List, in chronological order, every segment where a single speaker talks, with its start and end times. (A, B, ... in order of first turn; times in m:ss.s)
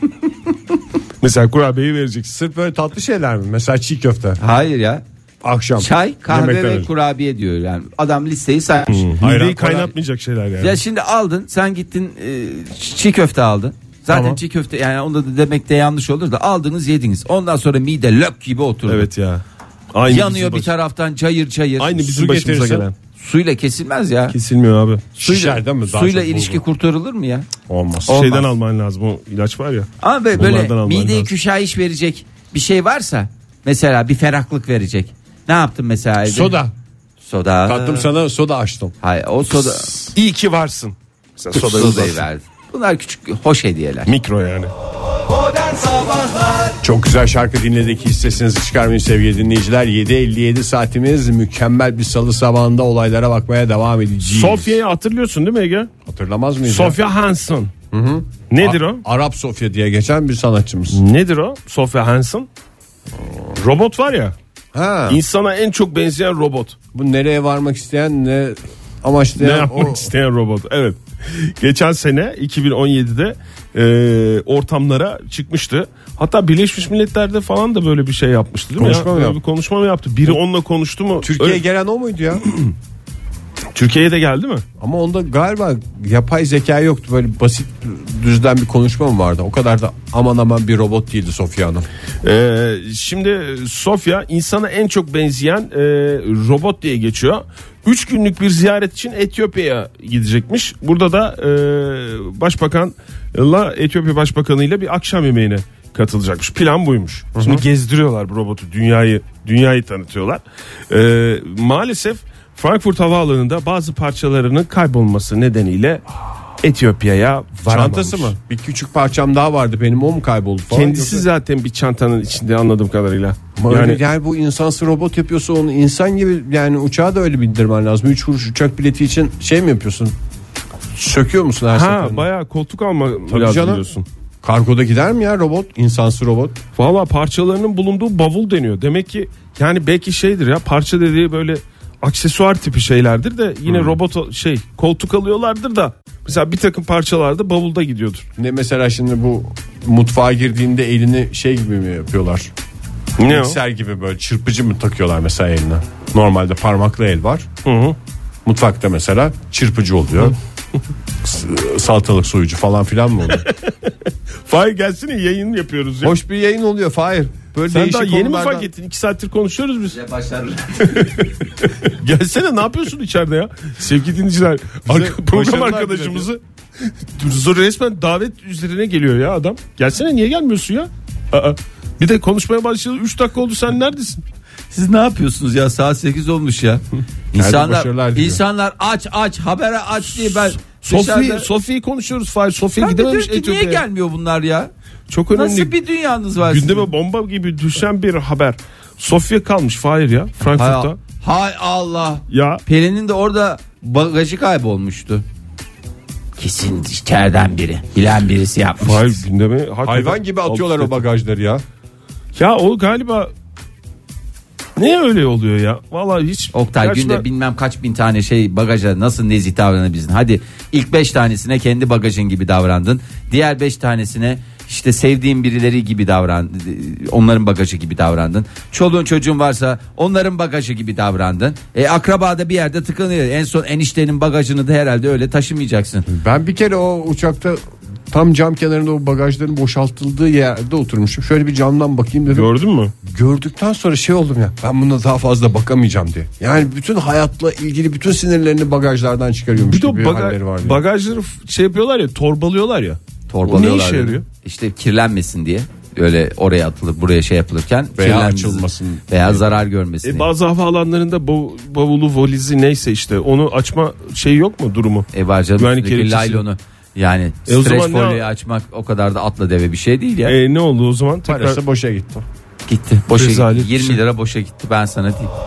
0:01.2-0:02.3 A
0:02.3-0:04.4 B
0:04.4-0:05.0 C
0:05.4-0:06.9 B
0:05.8-0:09.1 C
0:08.9-0:10.8 A
0:09.2-0:09.9 B
0:10.6-0:19.1 C
0:14.1-0:14.4 B
0:18.9-0:20.7 A
0:20.1-0:21.9 C
0:21.8-0:22.9 A
0:22.0-0:22.9 B
0:23.2-0:24.3 C
0:24.3-0:25.1 A
0:25.2-0:26.6 B
0:25.2-0:27.5 C
0:27.7-0:28.5 B
0:28.1-0:31.3 A
0:30.0-0:36.6 C
0:36.2-0:36.7 B
0:37.2-0:38.1 C
0:37.6-0:38.9 B
0:39.0-0:39.9 C
0:39.6-0:42.2 A
0:41.5-0:44.1 C
0:44.0-0:44.7 A
0:46.8-0:54.8 B
0:54.2-0:55.9 A
0:56.0-0:57.0 B
0:56.6-0:57.7 A
0:57.9-1:01.0 B
0:58.5-0:59.0 A
1:00.9-1:02.5 A
1:03.5-1:04.3 A
1:04.7-1:05.2 B
1:05.1-1:06.8 A
1:06.9-1:10.1 B
1:09.4-1:21.6 A
1:18.8-1:19.4 B
1:21.2-1:22.4 B
1:23.7-1:24.6 A
1:24.8-1:31.9 B
1:32.2-1:56.0 A
1:47.4-1:47.6 B
1:56.6-1:58.3 A
1:57.6-2:01.3 B
2:00.7-2:04.0 A
2:03.6-2:10.2 B
2:10.9-2:12.2 B
2:11.7-2:14.0 A
2:13.3-2:13.8 B
2:14.4-2:16.6 B
2:16.8-2:28.2 A
2:23.6-2:24.0 B
2:28.4-2:32.5 B
2:33.2-2:33.6 A
2:33.2-2:37.5 B
2:37.6-2:38.0 A
2:38.4-2:40.4 B
2:41.2-2:43.4 B
2:43.4-2:43.9 A
2:44.4-2:46.2 A
2:46.0-2:48.7 B
2:47.7-2:50.0 A
2:49.9-2:51.1 C
2:50.9-2:56.4 A
2:54.9-2:56.3 B
2:57.1-3:04.2 A
3:04.7-3:11.5 C
3:07.3-3:08.4 B
3:10.2-3:13.8 A
3:12.8-3:14.7 C
3:15.1-3:15.7 A
3:15.3-3:16.9 C
3:16.4-3:21.0 A
3:20.4-3:25.2 C
3:22.3-3:22.6 A
3:26.4-3:29.2 C
3:28.8-3:31.0 A
3:29.8-3:31.6 B
3:32.3-3:33.3 A
3:34.8-3:37.2 A
3:36.5-3:56.0 C
3:56.1-4:02.5 B
4:02.3-4:02.9 A
4:03.0-4:10.8 B
4:09.6-4:14.2 A
4:13.3-4:20.3 C
4:18.0-4:19.4 B
4:20.0-4:26.4 A
4:25.1-4:30.3 C
4:27.5-4:28.2 A
4:30.2-4:31.6 A
4:31.2-4:32.2 B
4:32.7-4:35.3 C
4:33.1-4:34.0 A